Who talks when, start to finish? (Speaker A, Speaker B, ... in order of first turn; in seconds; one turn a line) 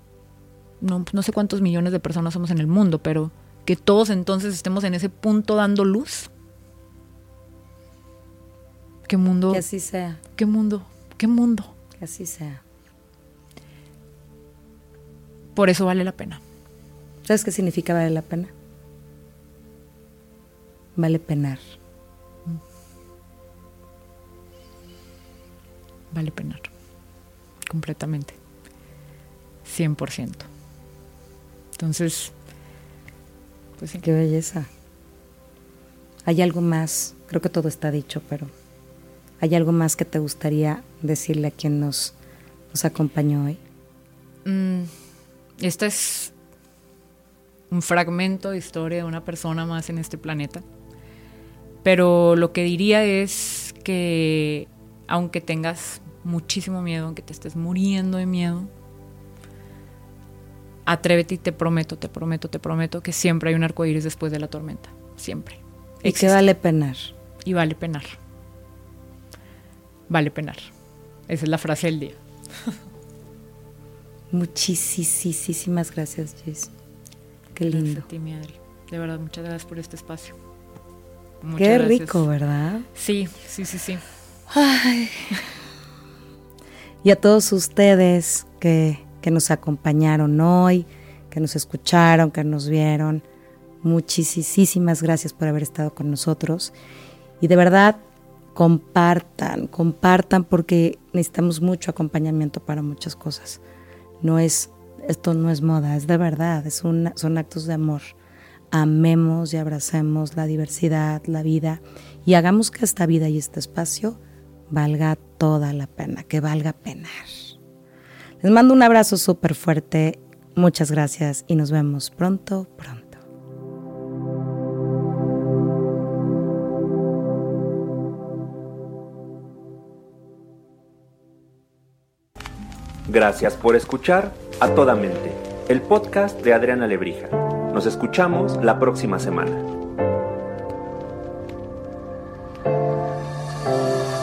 Speaker A: 0.8-6.3
Speaker A: 9.1-9.6
Speaker B: 9.5-10.2
Speaker A: 10.3-11.7
Speaker B: 12.0-12.6
Speaker A: 15.6-16.4
Speaker B: 17.2-18.5
Speaker B: 21.0-21.6
Speaker A: 26.1-26.7
Speaker A: 27.7-28.4
Speaker A: 29.6-30.5
Speaker A: 31.8-32.3
Speaker A: 33.8-34.0
Speaker B: 34.0-34.7
Speaker B: 36.2-38.5
Speaker B: 39.4-42.1
Speaker B: 42.7-43.6
Speaker A: 44.5-44.9
Speaker A: 45.6-46.3
Speaker A: 47.7-50.6
Speaker A: 51.8-58.7
Speaker A: 60.9-66.4
Speaker B: 66.0-67.1
Speaker A: 67.4-68.2
Speaker A: 70.1-70.7
Speaker A: 71.3-72.2
Speaker B: 74.3-76.7
Speaker B: 77.5-78.0
Speaker A: 77.6-80.4
Speaker A: 81.4-82.2
Speaker B: 81.6-82.9
Speaker A: 83.0-84.0
Speaker B: 84.5-85.4
Speaker B: 87.0-93.2
Speaker B: 93.8-96.7
Speaker B: 97.4-98.0
Speaker B: 98.5-103.6
Speaker B: 104.2-108.1
Speaker B: 108.7-117.5
Speaker B: 118.4-123.2
Speaker C: 133.1-139.6